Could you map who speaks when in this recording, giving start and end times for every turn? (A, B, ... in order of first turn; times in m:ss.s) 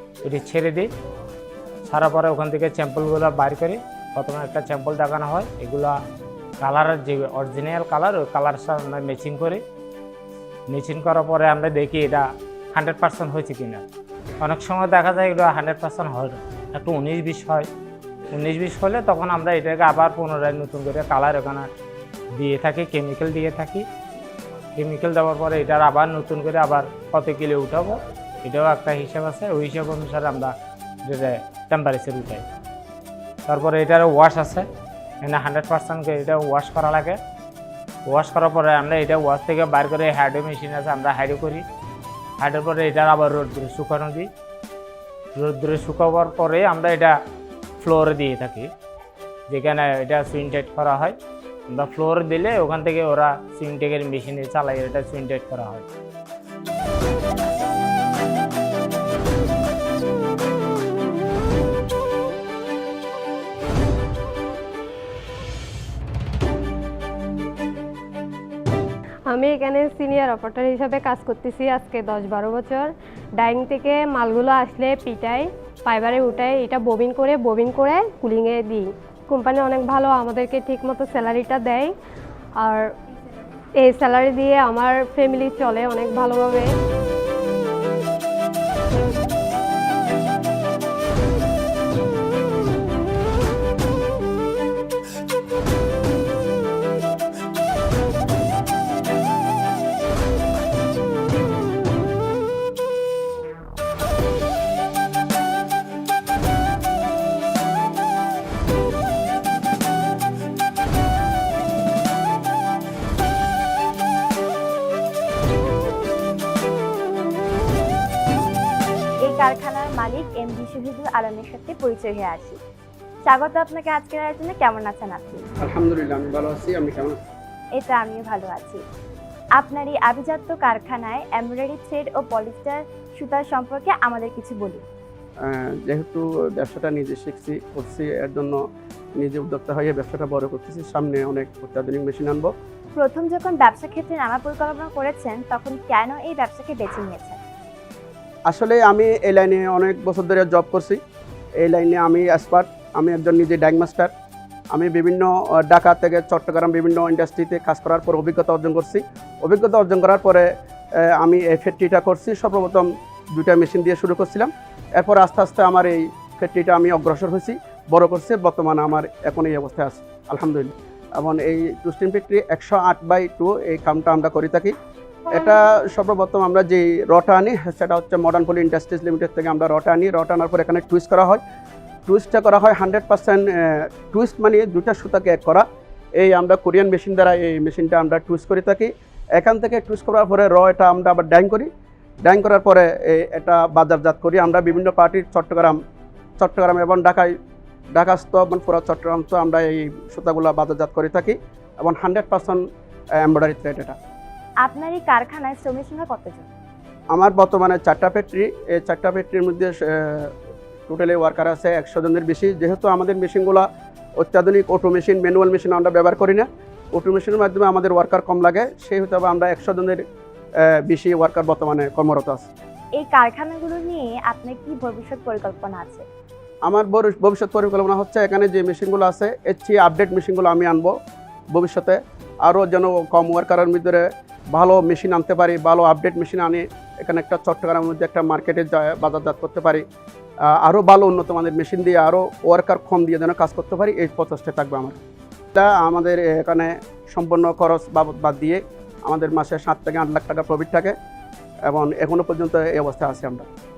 0:00.2-0:00.9 A
0:01.9-0:06.0 A
0:06.6-0:09.6 A
0:10.7-0:13.8 A
0:14.4-0:17.7 A
0:18.3-0:21.7 A
0:22.4-0:23.8 A
0:24.7-0:30.5 A
0:31.0-0:32.4 A
0:33.4-0:34.6 A
0:35.2-0:37.2 A
0:38.1-0:41.6 A
0:42.4-0:44.3 A
0:45.4-0:47.1 A
0:47.8-0:48.7 A
0:49.5-0:51.2 A
0:51.7-0:55.9 A
1:09.3-1:21.9 B
1:22.6-1:22.9 B
1:23.8-1:26.7 B
1:59.2-2:02.6 C
2:03.2-2:05.5 C
2:05.6-2:07.2 D
2:07.7-2:08.8 C
2:09.6-2:14.8 C
2:15.4-2:18.6 D
2:19.2-2:22.5 D
2:23.0-2:27.4 C
2:28.5-2:31.0 D
2:31.6-2:34.1 D
2:34.7-2:40.5 D
2:41.0-2:54.7 D
2:55.3-3:01.4 D
3:02.1-3:05.6 D
3:06.2-3:11.7 D
3:12.2-3:15.8 D
3:16.4-3:17.3 D
3:17.9-3:22.6 D
3:23.2-3:24.0 D
3:24.6-3:26.5 C
3:27.1-3:30.3 D
3:30.9-3:33.6 D
3:34.2-3:40.0 D
3:40.6-3:42.5 D
3:43.0-3:46.0 C
3:46.6-3:50.9 D
3:51.5-3:59.8 D
4:00.5-4:05.0 D
4:05.5-4:10.9 D
4:11.6-4:13.5 D